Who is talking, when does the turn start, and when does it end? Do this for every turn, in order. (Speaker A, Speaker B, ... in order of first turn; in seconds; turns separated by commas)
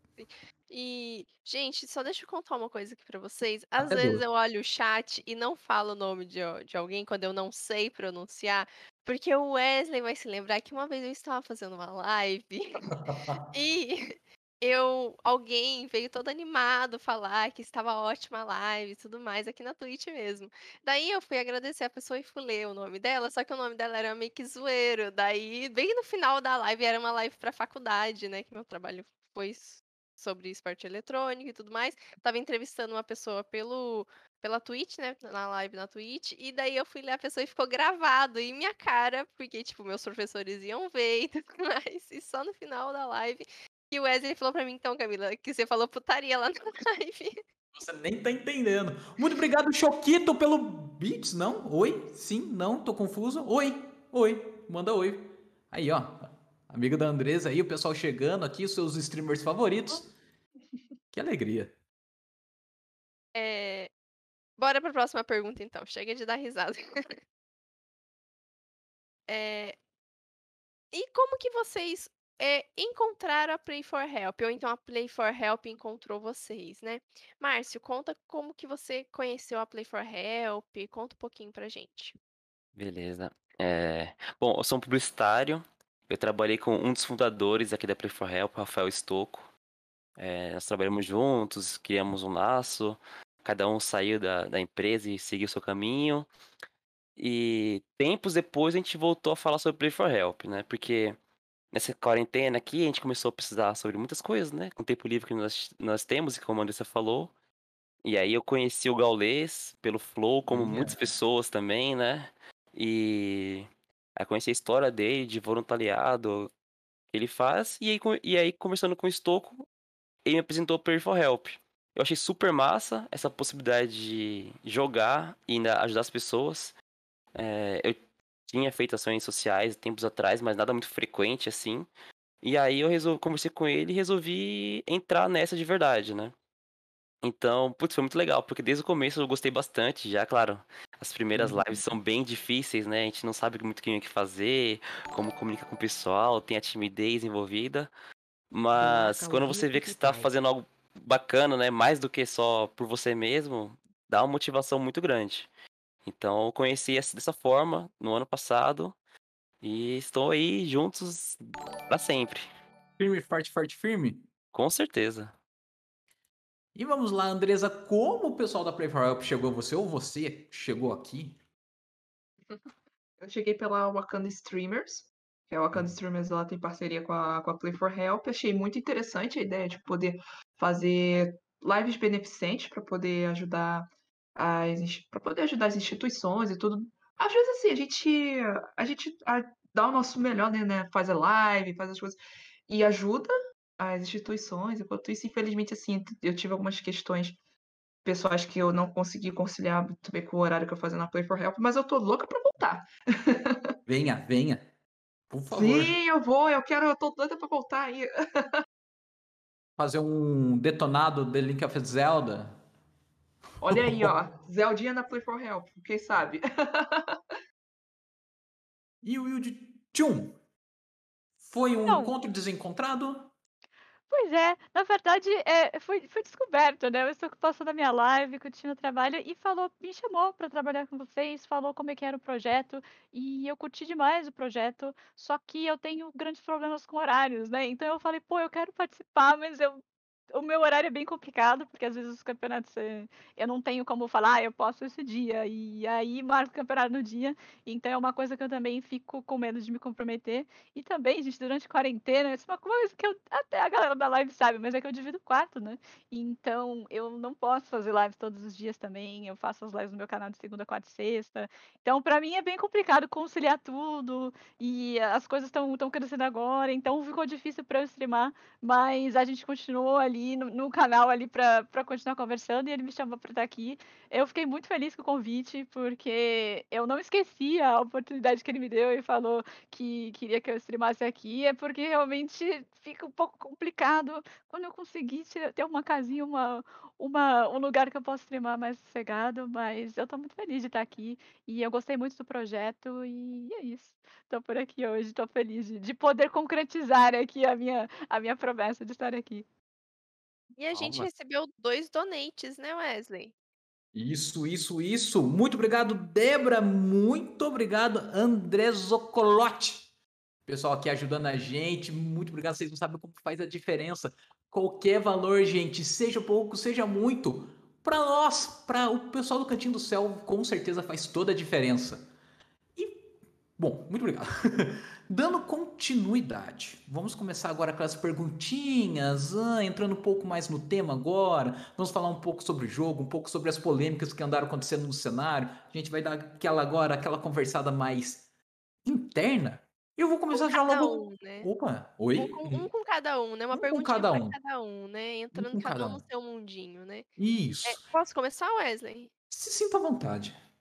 Speaker A: 0.2-12.9, Speaker B: 3.8-4.2, Speaker B: 13.1-13.4, Speaker A: 13.5-47.4, Speaker B: 47.7-60.1, Speaker B: 61.1-61.7, Speaker A: 63.3-63.9, Speaker A: 64.6-67.2, Speaker A: 69.3-69.8, Speaker A: 70.9-82.2, Speaker C: 82.8-89.5, Speaker C: 90.2-96.3, Speaker C: 97.2-101.2, Speaker C: 101.7-107.3, Speaker C: 108.0-116.5, Speaker B: 110.5-111.2, Speaker C: 117.1-119.7, Speaker C: 120.2-126.7, Speaker C: 127.3-131.9, Speaker C: 132.4-136.3, Speaker C: 137.2-147.9, Speaker B: 141.3-141.8, Speaker C: 148.5-155.5, Speaker B: 148.8-150.3, Speaker C: 156.1-159.0, Speaker C: 159.6-162.5, Speaker B: 163.0-164.3, Speaker C: 164.5-165.3, Speaker B: 166.8-171.4, Speaker D: 173.2-197.4, Speaker D: 198.1-203.7, Speaker B: 203.9-204.7, Speaker B: 205.3-205.9, Speaker D: 205.5-208.6, Speaker B: 209.8-212.6, Speaker D: 213.6-217.2, Speaker B: 213.7-214.1, Speaker B: 219.0-220.4, Speaker B: 221.4-223.3, Speaker E: 221.9-222.1, Speaker E: 224.1-239.8, Speaker E: 240.3-299.4, Speaker A: 300.6-303.3, Speaker B: 300.7-301.1, Speaker B: 303.9-309.9, Speaker B: 310.5-322.1, Speaker B: 322.8-338.2, Speaker B: 338.9-342.7, Speaker A: 340.3-341.5, Speaker A: 342.1-347.1, Speaker B: 343.5-344.4, Speaker B: 345.3-346.0, Speaker B: 347.2-347.8, Speaker A: 347.6-349.1, Speaker B: 349.3-350.4